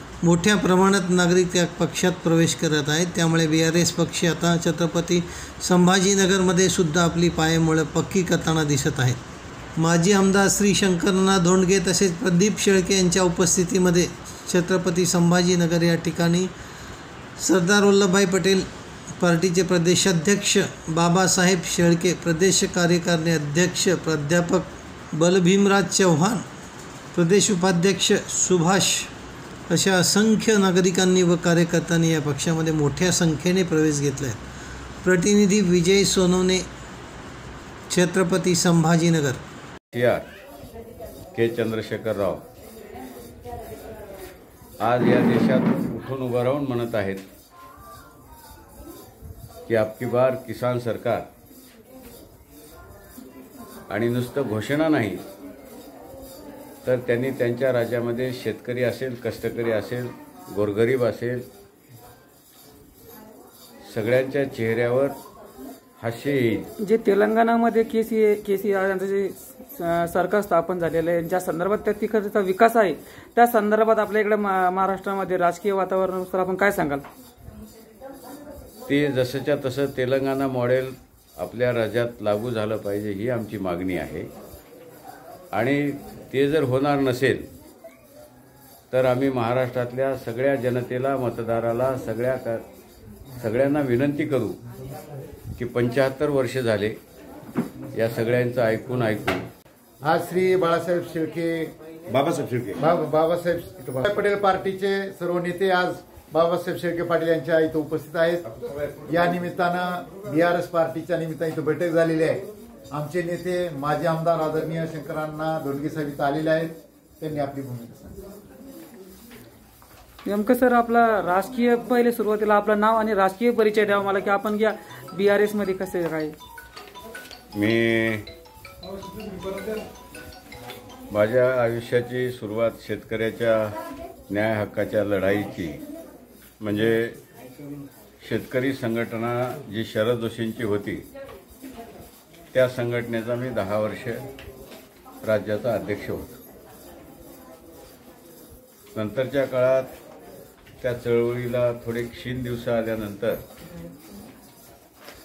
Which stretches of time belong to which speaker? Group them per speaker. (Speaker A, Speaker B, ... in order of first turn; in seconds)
Speaker A: 0.2-9.2, 9.8-16.5, 17.4-18.7, 19.2-26.4, 27.1-29.1, 29.7-34.4, 35.0-36.7, 37.9-39.4
Speaker B: 39.9-40.2, 41.4-42.4, 44.8-47.2, 49.7-51.3, 53.9-55.2, 56.9-61.5, 63.9-65.2, 66.0-66.7, 78.9-84.3, 85.5-87.5, 88.9-92.6, 93.4-94.6, 95.6-97.0, 97.9-99.5, 127.5-128.3, 131.1-135.8, 136.6-137.2, 138.2-141.1, 142.5-144.2, 145.2-146.4, 148.9-149.9, 150.8-153.4
Speaker C: 66.8-77.0, 120.2-126.3
Speaker D: 100.0-101.7, 102.7-108.4, 109.1-118.2